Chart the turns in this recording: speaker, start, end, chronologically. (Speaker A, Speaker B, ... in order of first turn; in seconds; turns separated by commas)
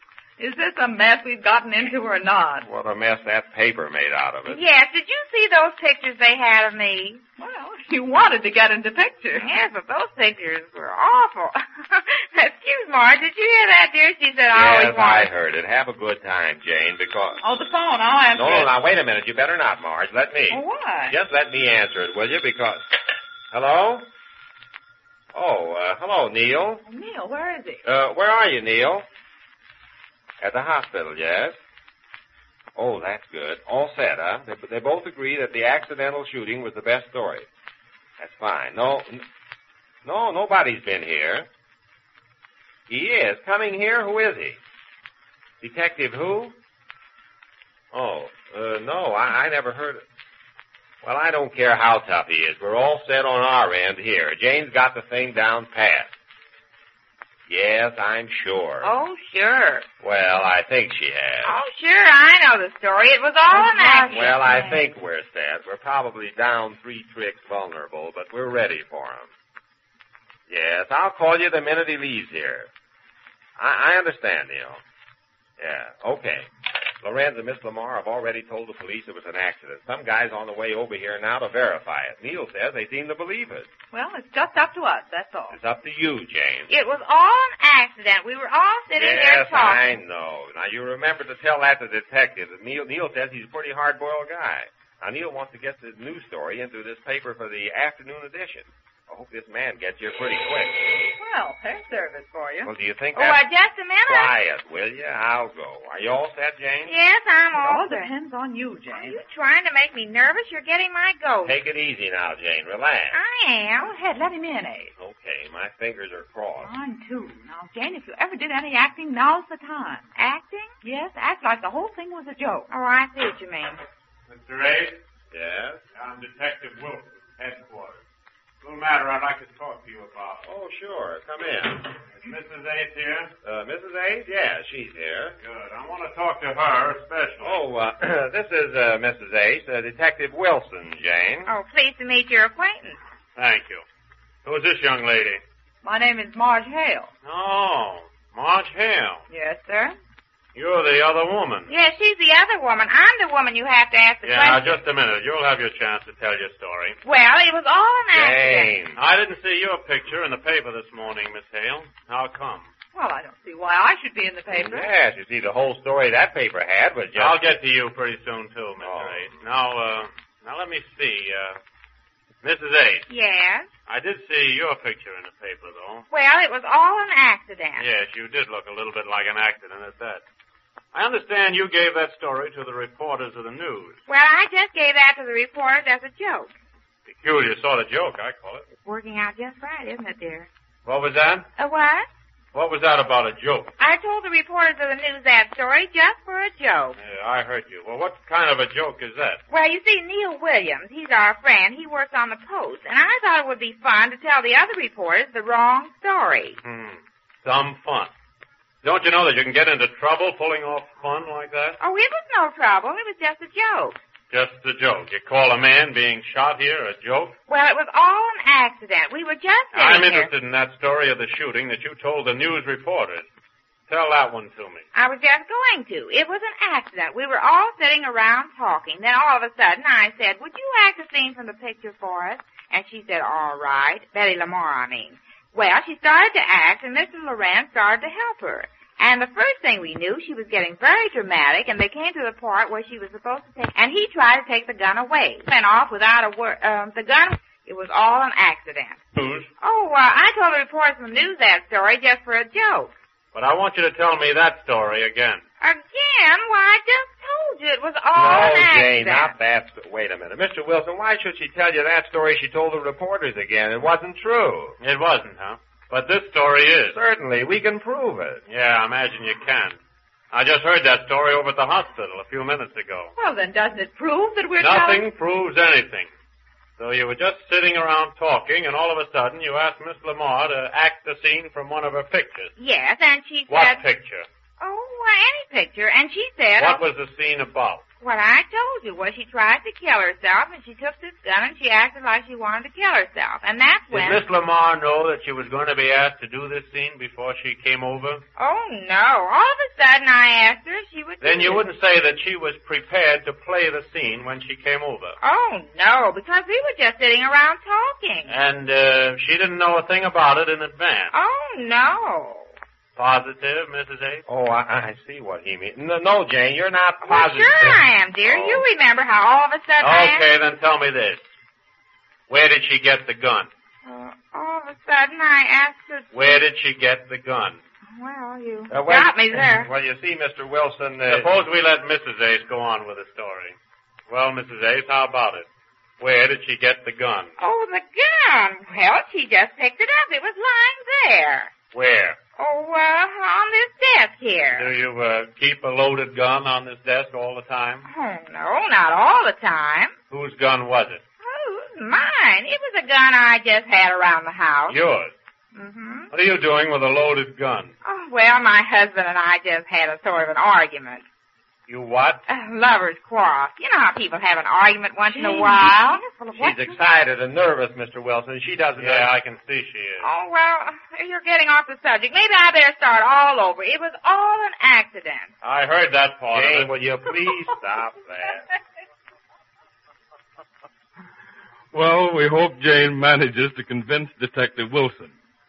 Speaker A: 0.4-2.6, Speaker B: 2.6-4.6, Speaker C: 4.5-7.2, Speaker A: 7.4-9.5, Speaker C: 9.4-15.3, Speaker B: 14.5-17.4, Speaker A: 17.4-18.7, Speaker B: 18.4-22.8, Speaker A: 20.5-21.1, Speaker B: 23.5-24.1, Speaker B: 25.3-26.8, Speaker A: 26.9-27.8, Speaker B: 27.8-29.1, Speaker B: 30.4-31.6, Speaker B: 32.8-37.5, Speaker B: 38.2-39.2, Speaker B: 40.0-41.5, Speaker B: 42.9-44.6, Speaker B: 45.6-46.5, Speaker B: 47.9-50.0, Speaker B: 51.0-56.1, Speaker B: 57.5-58.9, Speaker C: 58.8-59.9, Speaker B: 60.0-61.6, Speaker C: 61.4-64.1, Speaker A: 63.5-64.8, Speaker B: 64.1-69.3, Speaker B: 70.5-72.7, Speaker B: 73.6-74.8, Speaker B: 75.6-76.5, Speaker B: 77.0-83.7, Speaker A: 83.9-85.6, Speaker B: 85.5-86.7, Speaker C: 86.7-90.0, Speaker B: 89.0-100.9, Speaker A: 101.2-102.7, Speaker B: 102.7-103.4, Speaker C: 103.1-104.3, Speaker B: 104.1-106.9, Speaker C: 106.9-108.1, Speaker A: 107.5-109.2, Speaker C: 108.9-111.5, Speaker B: 111.4-113.2, Speaker C: 113.1-113.9, Speaker A: 113.8-114.9, Speaker B: 115.0-116.7, Speaker A: 116.6-120.1, Speaker C: 120.2-120.8, Speaker A: 120.8-122.7, Speaker C: 122.7-123.8, Speaker D: 124.3-125.0, Speaker B: 125.3-125.8, Speaker D: 125.9-128.0, Speaker D: 128.6-130.4, Speaker B: 130.4-131.9, Speaker D: 132.2-133.3, Speaker B: 133.4-135.4, Speaker D: 135.4-137.7, Speaker B: 137.4-141.5, Speaker C: 141.5-143.0, Speaker D: 143.3-143.8, Speaker D: 144.4-145.4, Speaker A: 145.8-147.1, Speaker D: 147.2-149.2, Speaker A: 149.3-149.9, Speaker D: 150.5-151.7, Speaker C: 151.7-154.8, Speaker D: 154.2-157.0, Speaker C: 157.0-158.8, Speaker B: 158.1-159.0, Speaker D: 158.9-162.7, Speaker A: 162.9-164.9, Speaker B: 164.5-167.4, Speaker D: 167.1-171.6, Speaker B: 168.8-169.3, Speaker D: 172.4-173.1, Speaker C: 173.1-173.7, Speaker D: 173.9-176.1, Speaker C: 176.1-177.8, Speaker D: 177.8-180.2, Speaker D: 180.9-184.0, Speaker C: 184.1-186.5, Speaker D: 187.1-188.6, Speaker C: 188.8-190.5, Speaker D: 190.8-191.5, Speaker C: 191.6-192.1, Speaker D: 192.5-193.7, Speaker C: 193.8-197.0, Speaker D: 197.0-199.4, Speaker C: 199.5-206.6, Speaker D: 206.6-208.1, Speaker D: 208.8-211.8, Speaker C: 211.8-214.0, Speaker D: 214.3-217.3, Speaker C: 217.5-220.3, Speaker D: 219.7-223.2, Speaker D: 223.9-224.8, Speaker C: 224.9-249.0, Speaker D: 249.2-249.5, Speaker C: 249.6-252.9, Speaker D: 253.3-255.4, Speaker C: 255.6-259.4, Speaker B: 258.1-264.8, Speaker D: 264.8-266.9, Speaker B: 266.9-268.4, Speaker D: 268.5-269.8, Speaker D: 270.3-273.1, Speaker A: 273.1-275.1, Speaker D: 274.6-276.1, Speaker D: 276.8-282.5, Speaker C: 282.6-283.8, Speaker D: 283.5-284.2, Speaker C: 284.6-286.8, Speaker D: 286.6-287.8, Speaker C: 288.0-294.2, Speaker D: 293.9-298.2, Speaker C: 298.4-301.6, Speaker D: 301.2-305.2, Speaker C: 305.2-308.4, Speaker D: 308.3-311.1, Speaker C: 311.1-312.5, Speaker D: 312.9-314.2, Speaker B: 314.2-318.6, Speaker C: 317.0-320.2, Speaker D: 319.8-321.2, Speaker D: 322.3-323.5, Speaker C: 323.8-326.4, Speaker D: 326.1-327.6, Speaker C: 327.9-329.7, Speaker B: 328.7-331.3, Speaker D: 331.1-333.6, Speaker D: 334.1-335.5, Speaker D: 336.0-337.3, Speaker C: 337.4-341.5, Speaker D: 341.7-342.2, Speaker C: 342.4-344.7, Speaker D: 344.5-347.9, Speaker C: 347.9-349.9, Speaker D: 350.1-351.0, Speaker C: 351.2-354.8, Speaker D: 354.7-355.1, Speaker C: 355.5-356.1, Speaker D: 356.1-357.7, Speaker C: 357.8-361.0, Speaker D: 361.7-362.2, Speaker C: 362.3-366.0, Speaker A: 365.1-366.8, Speaker B: 366.3-369.1, Speaker D: 368.8-370.1, Speaker C: 370.0-375.3, Speaker D: 375.4-376.8, Speaker B: 376.3-378.4, Speaker E: 381.7-385.1